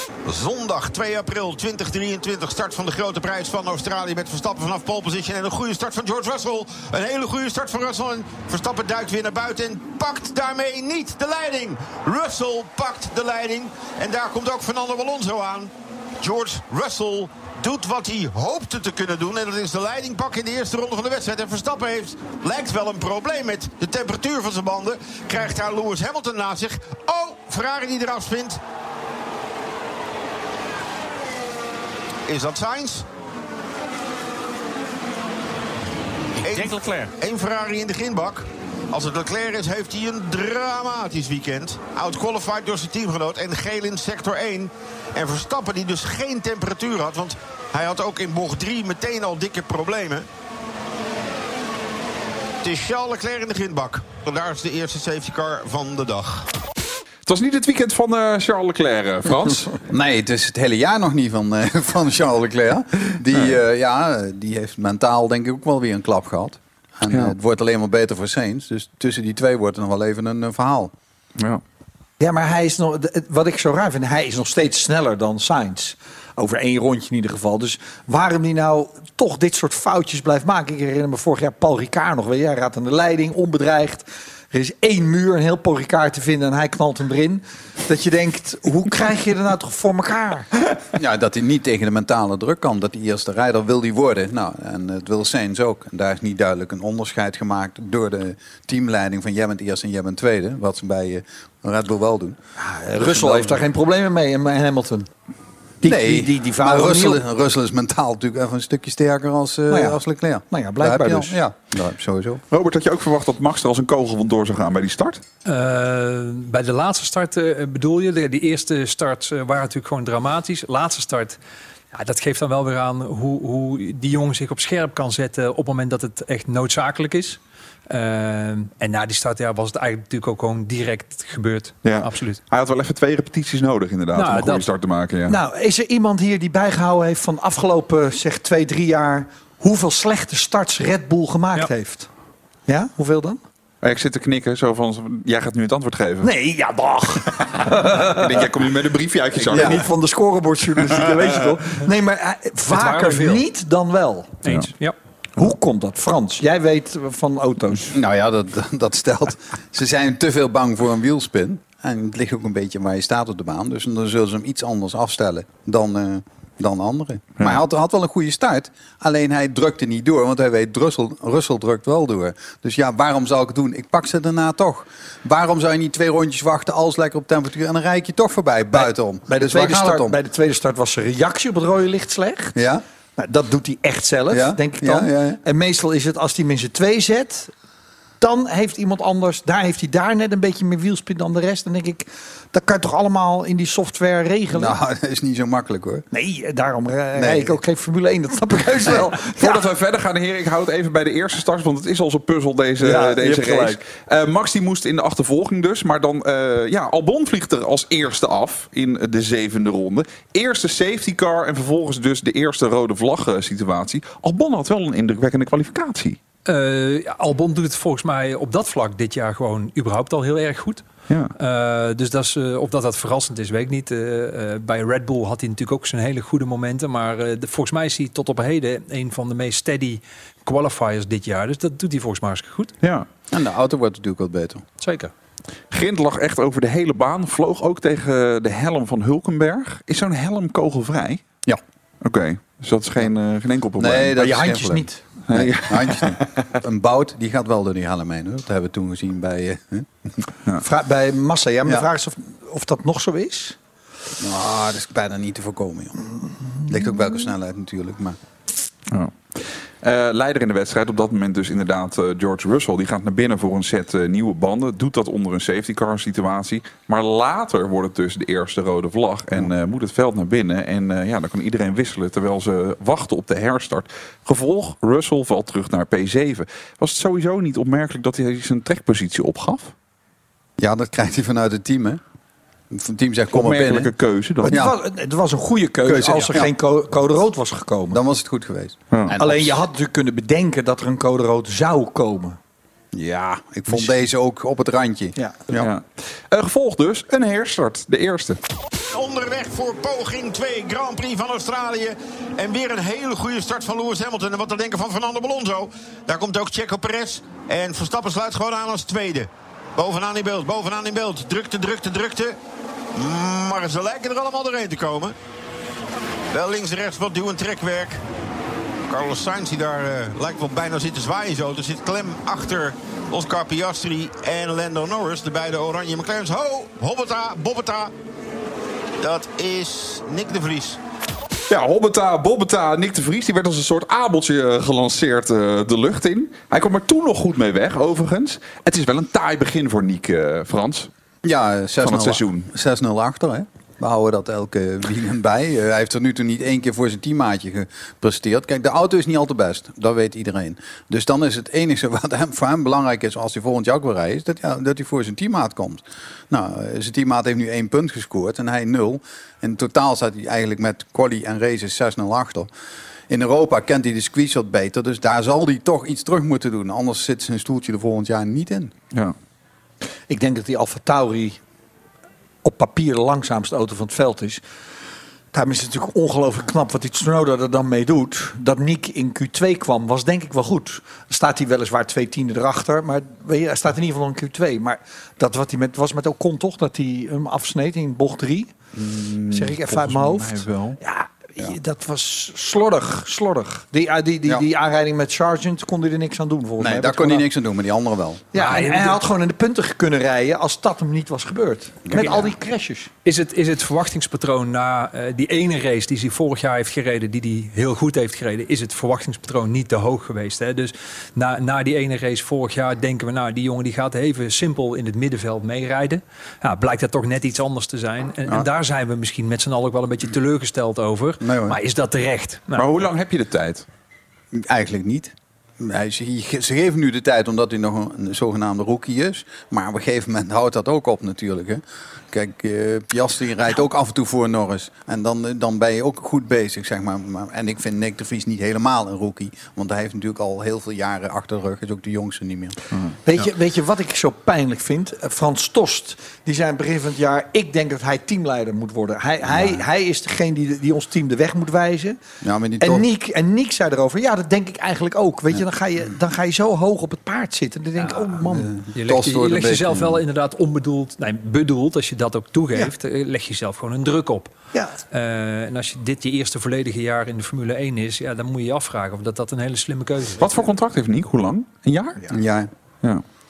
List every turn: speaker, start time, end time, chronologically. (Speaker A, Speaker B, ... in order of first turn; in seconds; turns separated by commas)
Speaker A: 0.2-28.6, Speaker A: 32.3-33.0, Speaker A: 36.4-50.2, Speaker A: 52.6-56.5, Speaker B: 57.2-59.7, Speaker C: 59.9-70.9, Speaker B: 67.1-67.3, Speaker D: 72.2-90.5, Speaker C: 90.9-102.4, Speaker D: 102.6-105.1, Speaker C: 103.0-103.6, Speaker D: 105.8-107.2, Speaker C: 105.8-112.4, Speaker D: 109.7-110.0, Speaker D: 110.5-111.4, Speaker B: 112.5-115.2, Speaker E: 115.4-121.4, Speaker E: 121.9-132.4, Speaker B: 131.8-135.4, Speaker E: 134.2-134.7, Speaker D: 135.3-142.1, Speaker D: 142.7-143.4, Speaker B: 143.8-146.3, Speaker D: 146.2-148.5, Speaker B: 147.7-149.9, Speaker D: 149.4-154.4, Speaker C: 149.5-149.8, Speaker E: 152.7-153.4, Speaker E: 154.4-154.9, Speaker D: 155.4-157.9, Speaker C: 157.9-180.2, Speaker D: 178.7-182.5, Speaker C: 182.6-182.8, Speaker D: 183.2-187.5, Speaker C: 184.3-185.4, Speaker D: 188.2-194.7, Speaker C: 194.5-196.0, Speaker D: 196.1-199.6, Speaker C: 197.1-197.6, Speaker C: 198.8-199.1, Speaker B: 199.3-216.2, Speaker D: 202.8-203.8, Speaker E: 216.5-220.8, Speaker E: 221.3-232.7, Speaker B: 232.8-233.1, Speaker C: 233.3-234.6, Speaker E: 234.8-235.1, Speaker B: 235.7-241.2, Speaker B: 242.0-244.2, Speaker C: 243.8-250.2, Speaker D: 244.2-245.0, Speaker B: 245.3-246.2, Speaker D: 250.6-253.6, Speaker C: 254.2-256.0, Speaker C: 256.6-258.2, Speaker B: 258.9-279.7, Speaker C: 280.6-282.0, Speaker C: 282.7-283.9, Speaker B: 283.3-284.6, Speaker D: 284.4-288.0, Speaker C: 284.4-284.8, Speaker C: 285.8-286.5, Speaker C: 287.9-289.6, Speaker D: 289.2-292.4, Speaker C: 292.9-295.7, Speaker D: 293.7-294.0, Speaker B: 295.5-298.4, Speaker A: 298.9-312.4, Speaker A: 312.9-315.1, Speaker A: 316.3-318.0, Speaker A: 318.9-327.9, Speaker A: 329.0-330.8, Speaker B: 331.5-340.9, Speaker C: 341.2-362.5, Speaker B: 341.8-342.5, Speaker C: 363.1-368.7, Speaker D: 370.1-371.4, Speaker D: 372.4-374.4, Speaker D: 375.3-388.5, Speaker B: 388.8-390.8, Speaker D: 389.3-397.2, Speaker C: 396.6-398.2, Speaker D: 398.3-402.9, Speaker E: 398.4-399.1, Speaker C: 401.8-402.3, Speaker E: 403.0-422.6, Speaker C: 421.2-421.6, Speaker B: 422.6-423.6, Speaker C: 424.3-442.6, Speaker D: 443.0-452.0, Speaker C: 449.2-449.6, Speaker C: 452.2-452.9, Speaker D: 452.6-458.5, Speaker E: 457.8-458.0, Speaker C: 458.2-460.0, Speaker E: 458.7-464.3, Speaker E: 464.9-470.2, Speaker B: 470.2-472.0, Speaker C: 472.1-472.5